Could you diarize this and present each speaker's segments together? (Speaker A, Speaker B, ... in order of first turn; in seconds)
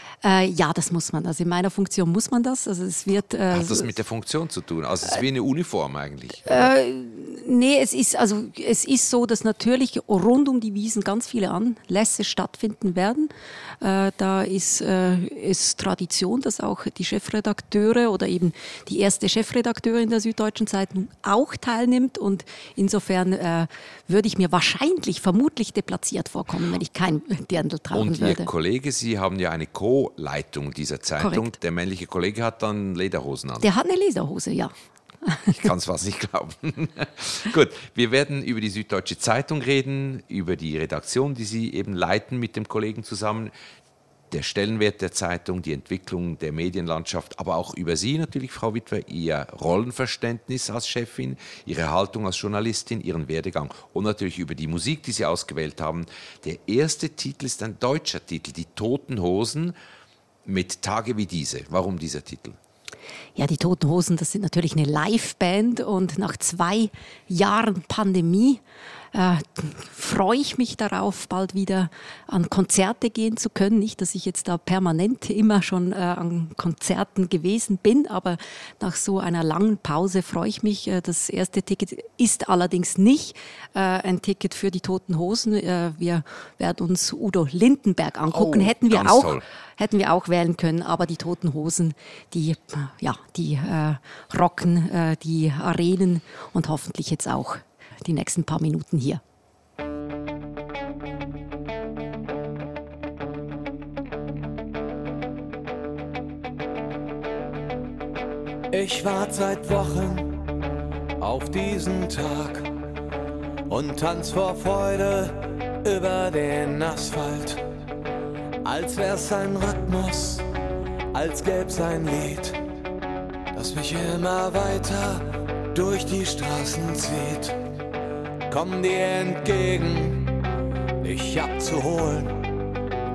Speaker A: 0.2-4.0, 6.5-13.3, 13.8-28.5, 31.2-31.5, 33.6-34.7, 35.3-35.5, 63.4-68.6, 69.1-99.2
Speaker B: 3.5-6.7, 27.9-33.7, 35.5-43.5, 44.3-59.8, 60.5-62.6, 88.3-89.5
Speaker C: 108.7-110.4, 111.2-112.7, 113.7-117.6, 118.6-120.5, 121.1-122.6, 123.5-127.6, 128.5-130.4, 131.0-132.4